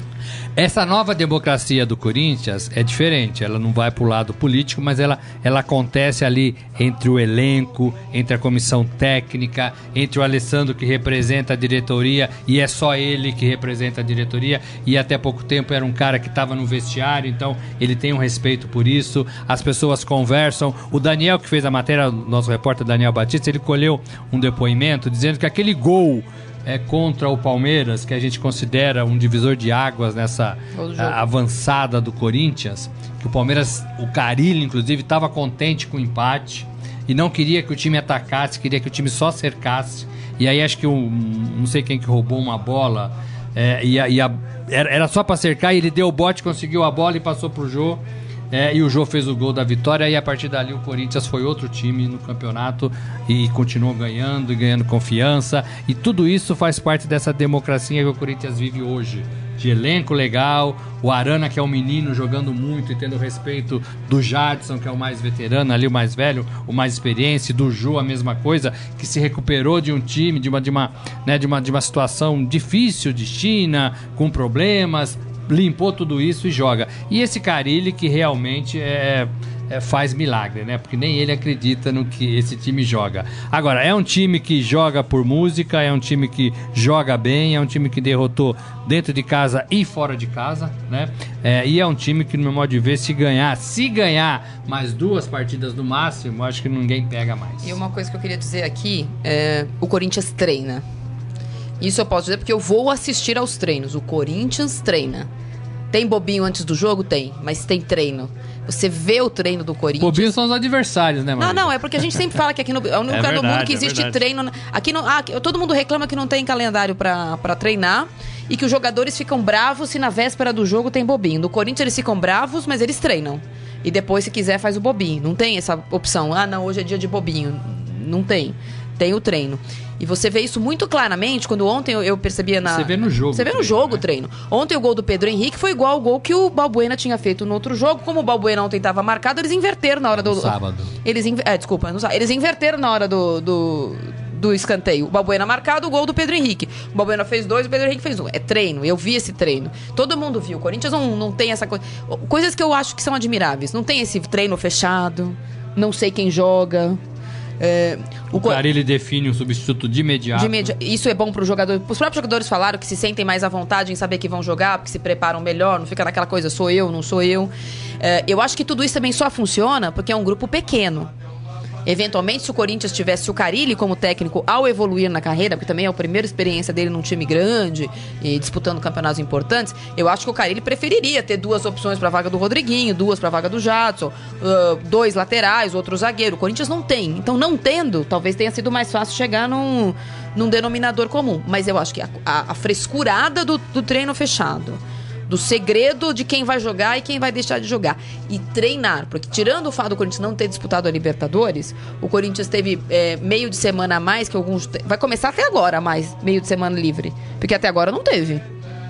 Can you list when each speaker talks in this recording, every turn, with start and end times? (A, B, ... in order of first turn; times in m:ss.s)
0:00.6-1:37.8 A
0:30.7-0:31.2 B
1:37.6-1:40.8 B
1:41.8-1:45.3 B
1:45.9-1:50.3 B
1:50.0-1:51.7 A
1:51.4-2:37.0 B
1:53.1-1:54.2 A
2:12.6-2:14.0 A
2:20.2-2:20.9 A
2:37.6-2:38.6 B
2:38.3-2:40.7 A
2:40.3-2:51.1 B
2:51.8-3:28.4 B